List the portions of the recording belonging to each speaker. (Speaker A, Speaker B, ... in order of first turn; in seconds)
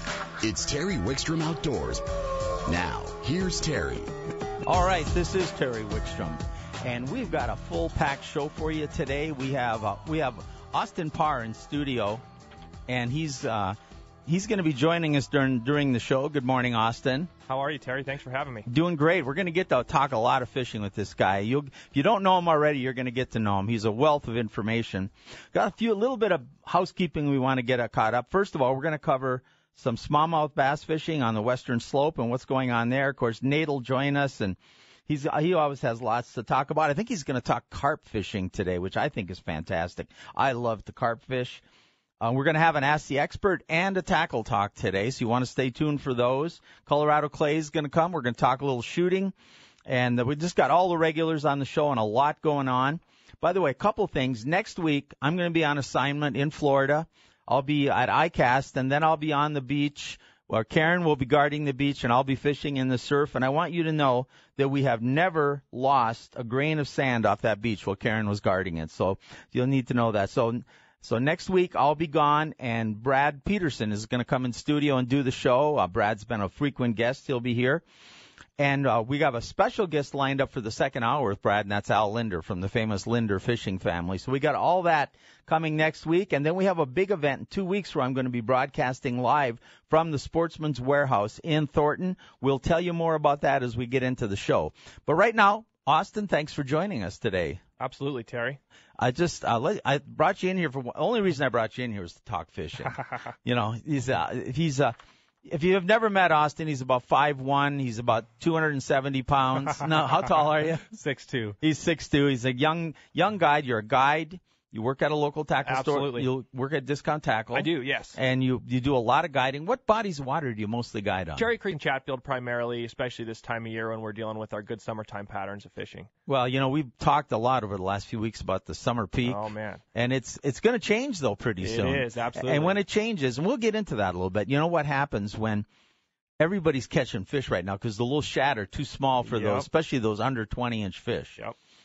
Speaker A: 0.4-2.0, 2.6-4.1
Speaker B: 4.6-12.2, 12.9-17.3, 18.7-41.6, 42.2-49.3, 49.9-77.8, 78.6-97.6, 99.0-104.9, 105.5-110.8, 111.6-121.5, 126.3-129.4, 129.9-135.7, 136.4-141.4
Speaker C: 17.5-18.7, 97.8-98.6, 110.9-111.5, 115.7-116.3, 117.5-118.2, 121.3-126.1, 129.2-129.8, 131.6-132.8, 139.2-139.7